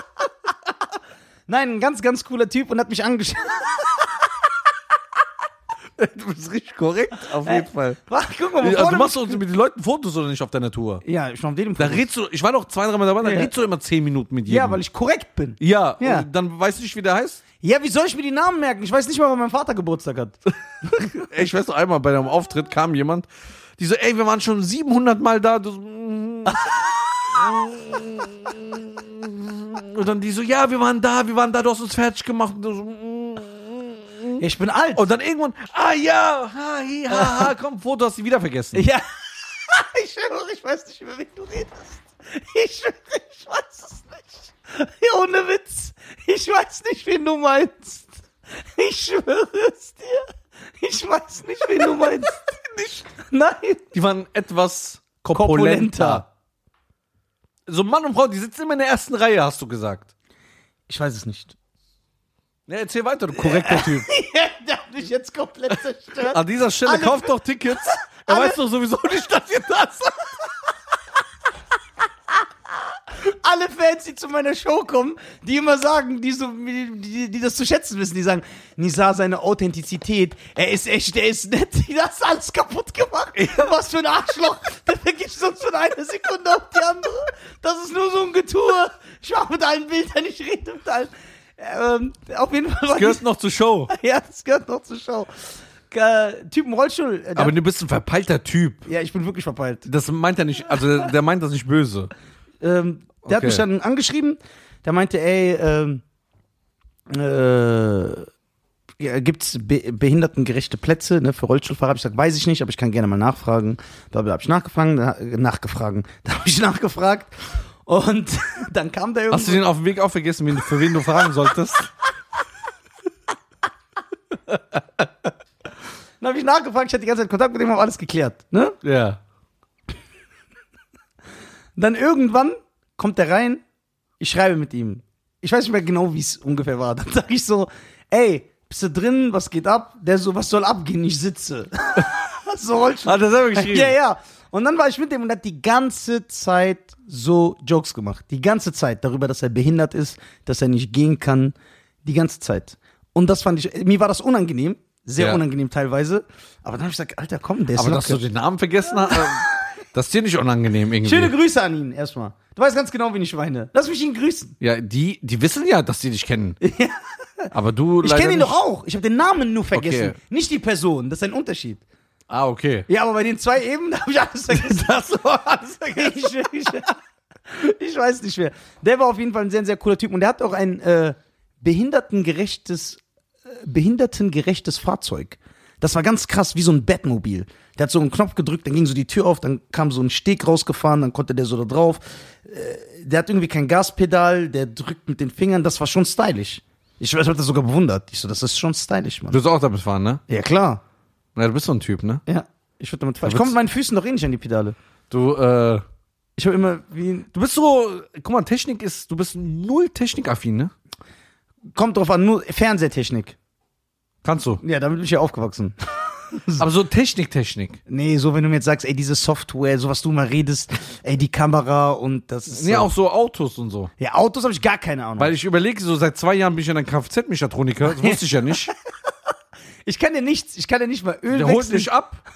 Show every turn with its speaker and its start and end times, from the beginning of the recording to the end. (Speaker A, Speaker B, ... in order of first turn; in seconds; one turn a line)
Speaker A: 1.5-4.5
Speaker B: 6.0-8.0
Speaker A: 7.4-9.4
Speaker B: 8.6-11.0
Speaker A: 11.0-12.0
Speaker B: 11.8-14.8
Speaker A: 13.2-13.5
Speaker A: 14.5-16.2
Speaker B: 15.6-17.4
Speaker A: 17.6-21.1
Speaker B: 21.0-23.3
Speaker B: 23.8-26.7
Speaker A: 26.5-26.8
Speaker B: 27.3-34.4
Speaker A: 34.4-35.0
Speaker B: 34.9-38.8
Speaker A: 37.1-37.5
Speaker A: 38.7-50.3
Speaker A: 50.8-52.4
Speaker B: 52.6-53.0
Speaker A: 53.2-53.9
Speaker B: 53.9-56.2
Speaker A: 55.3-56.2
Speaker B: 57.7-60.1
Speaker A: 60.9-61.5
Speaker B: 62.7-64.1
Speaker A: 63.3-68.6
Speaker B: 66.2-70.3
Speaker A: 73.1-93.2
Speaker B: 92.9-93.9
Speaker A: 93.9-97.5
Speaker B: 97.3-98.8
Speaker A: 98.8-99.9
Speaker B: 99.8-102.1
Speaker A: 102.6-106.0
Speaker B: 103.2-103.6
Speaker A: 107.1-108.3
Speaker A: 109.0-119.6
Speaker B: 119.3-121.9
Speaker A: 126.2-128.8
Speaker B: 128.8-129.2
Speaker A: 131.8-133.6
Speaker A: 134.2-158.2
Speaker B: 143.0-143.9
Speaker B: 157.7-161.3
Speaker A: 159.0-159.5
Speaker A: 161.0-164.5
Speaker B: 164.6-166.6
Speaker A: 166.6-167.5
Speaker B: 167.5-168.6
Speaker A: 168.0-171.8
Speaker B: 169.7-170.2
Speaker B: 172.3-172.9
Speaker A: 172.9-176.9
Speaker A: 177.4-199.4
Speaker B: 199.3-200.2
Speaker A: 200.3-200.8
Speaker B: 201.3-202.2
Speaker A: 202.3-204.8
Speaker B: 203.2-203.5
Speaker B: 205.1-205.8
Speaker A: 206.4-207.3
Speaker B: 207.3-210.7
Speaker A: 211.7-213.3
Speaker B: 214.2-214.6
Speaker A: 214.6-216.6
Speaker B: 216.6-217.8
Speaker A: 217.9-222.9
Speaker B: 222.5-223.9
Speaker A: 224.0-225.3
Speaker B: 225.2-228.7
Speaker A: 227.8-228.7
Speaker A: 229.8-231.9
Speaker B: 231.3-232.2